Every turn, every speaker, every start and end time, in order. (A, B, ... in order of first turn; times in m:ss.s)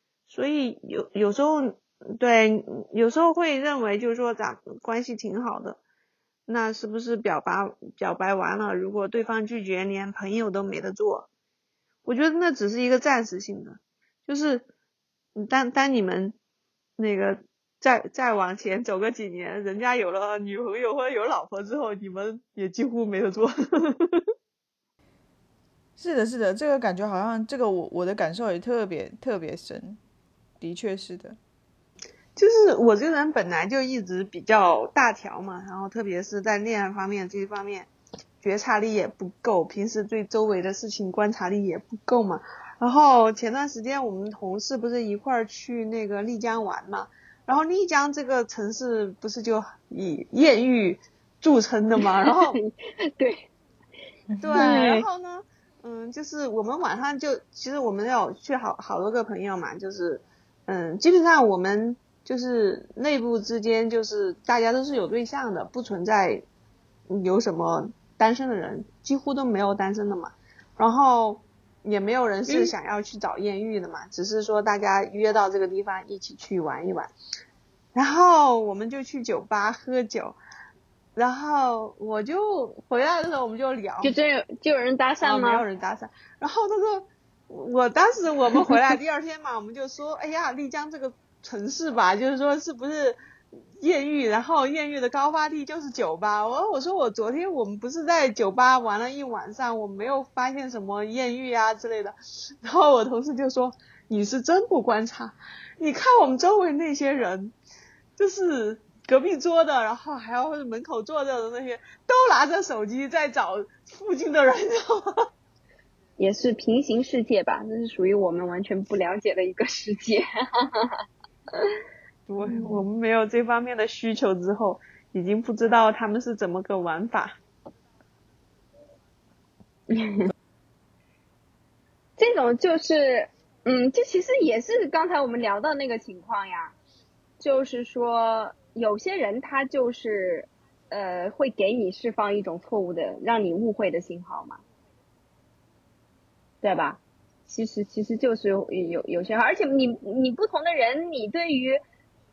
0:00.3-0:05.8 A
0:06.5-0:11.3 A
0:12.0-0:14.6 A
0:15.3-0:16.3 A
0:17.0-0:24.2 A
0:26.0-0:30.0 B
0:30.6-0:31.4 B
0:32.4-0:37.9 A
0:38.4-0:52.6 A
0:52.0-0:53.5 C
0:54.3-0:54.8 B
0:54.4-1:06.4 A
0:54.5-0:55.0 C
1:07.1-1:17.1 A
1:17.9-1:20.4 A
1:21.2-1:24.2 A
1:24.0-1:25.6 C
1:25.2-1:33.2 A
1:33.8-1:47.5 A
1:48.2-1:55.1 A
1:56.2-2:00.9 C
2:02.3-2:07.4 A
2:09.9-2:10.3 C
2:12.2-2:16.7 C
2:17.4-2:24.6 C
2:26.6-2:31.8 C